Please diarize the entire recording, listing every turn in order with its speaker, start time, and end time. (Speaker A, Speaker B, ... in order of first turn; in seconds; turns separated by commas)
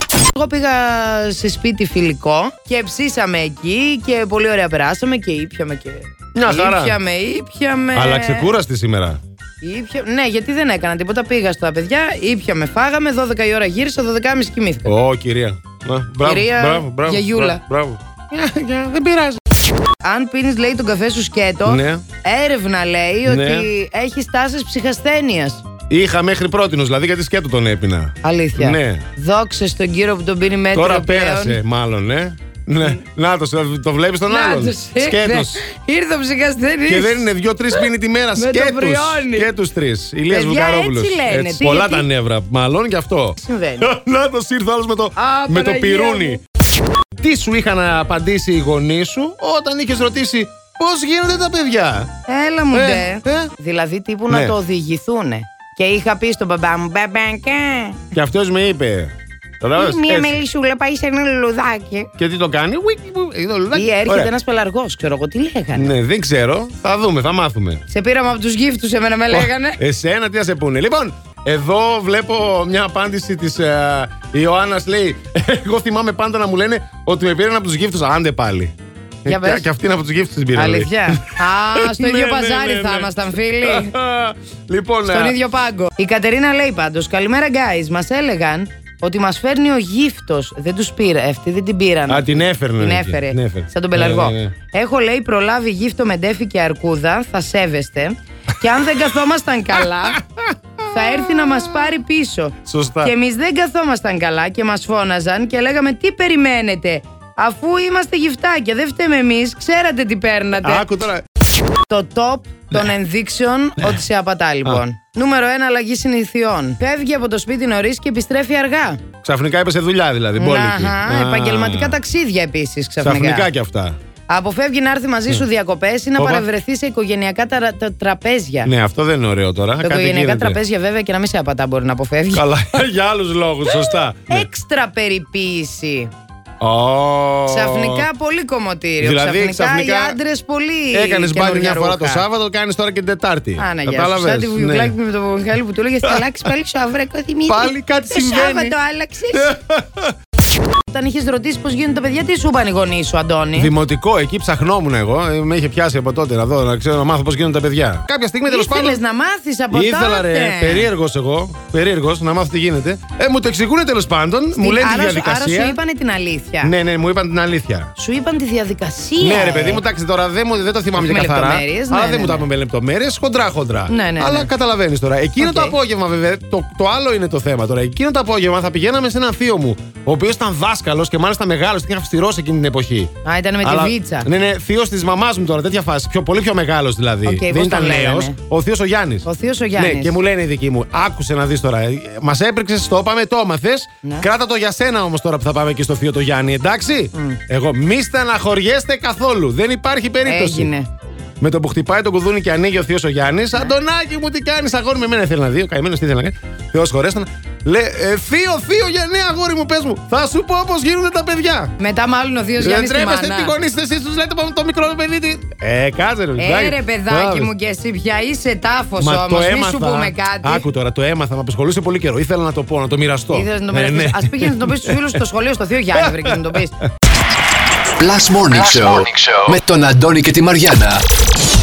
Speaker A: 0.3-8.5, Speaker B: 6.3-7.0, Speaker B: 7.9-9.2, Speaker A: 9.6-14.9, Speaker B: 14.8-19.4, Speaker A: 16.2-17.6, Speaker A: 20.0-25.6, Speaker B: 21.6-22.0, Speaker B: 23.2-23.7, Speaker B: 25.9-29.1, Speaker A: 28.2-31.6, Speaker B: 30.7-35.6, Speaker A: 34.3-37.2, Speaker B: 36.9-46.4, Speaker A: 38.4-39.5, Speaker A: 40.3-42.1, Speaker A: 43.4-43.9, Speaker A: 45.1-46.4, Speaker B: 47.2-52.1, Speaker A: 52.3-58.0, Speaker B: 52.7-53.5, Speaker B: 54.3-54.5, Speaker B: 58.1-60.4, Speaker A: 59.7-62.1, Speaker B: 62.2-64.3, Speaker A: 63.7-65.9, Speaker B: 65.7-67.8, Speaker A: 67.9-69.8, Speaker B: 69.3-78.7, Speaker B: 79.2-85.4, Speaker A: 79.2-79.7, Speaker A: 80.5-83.9, Speaker A: 85.0-100.2, Speaker B: 92.1-94.5, Speaker B: 100.1-101.7, Speaker A: 100.9-110.8, Speaker B: 102.7-103.1, Speaker B: 110.6-111.2, Speaker A: 111.9-119.0, Speaker B: 119.2-122.0, Speaker A: 120.3-123.5, Speaker B: 123.0-124.0, Speaker A: 124.3-128.7, Speaker B: 126.2-126.5, Speaker B: 128.6-130.6, Speaker A: 129.8-132.4, Speaker B: 132.3-134.4, Speaker A: 134.3-136.1, Speaker B: 136.6-138.1, Speaker A: 137.5-142.2, Speaker B: 139.0-140.2, Speaker B: 140.9-144.9, Speaker A: 143.6-149.5, Speaker B: 147.5-148.7, Speaker B: 149.3-150.2, Speaker A: 150.9-153.7, Speaker B: 153.6-159.0, Speaker A: 158.5-160.9, Speaker B: 159.7-165.8, Speaker A: 164.6-166.7, Speaker B: 166.6-167.9, Speaker A: 168.0-169.8, Speaker B: 169.2-183.1, Speaker A: 170.9-172.4, Speaker A: 173.9-174.5, Speaker A: 175.4-175.8, Speaker A: 183.2-184.3, Speaker B: 183.6-200.7, Speaker A: 187.2-188.4, Speaker A: 189.2-190.2, Speaker A: 197.1-197.4, Speaker A: 200.2-200.9, Speaker B: 201.4-211.7, Speaker A: 211.8-213.5, Speaker B: 212.6-217.5, Speaker A: 216.4-220.7, Speaker B: 219.0-225.2, Speaker A: 223.3-226.8, Speaker B: 226.0-226.6, Speaker C: 228.0-231.0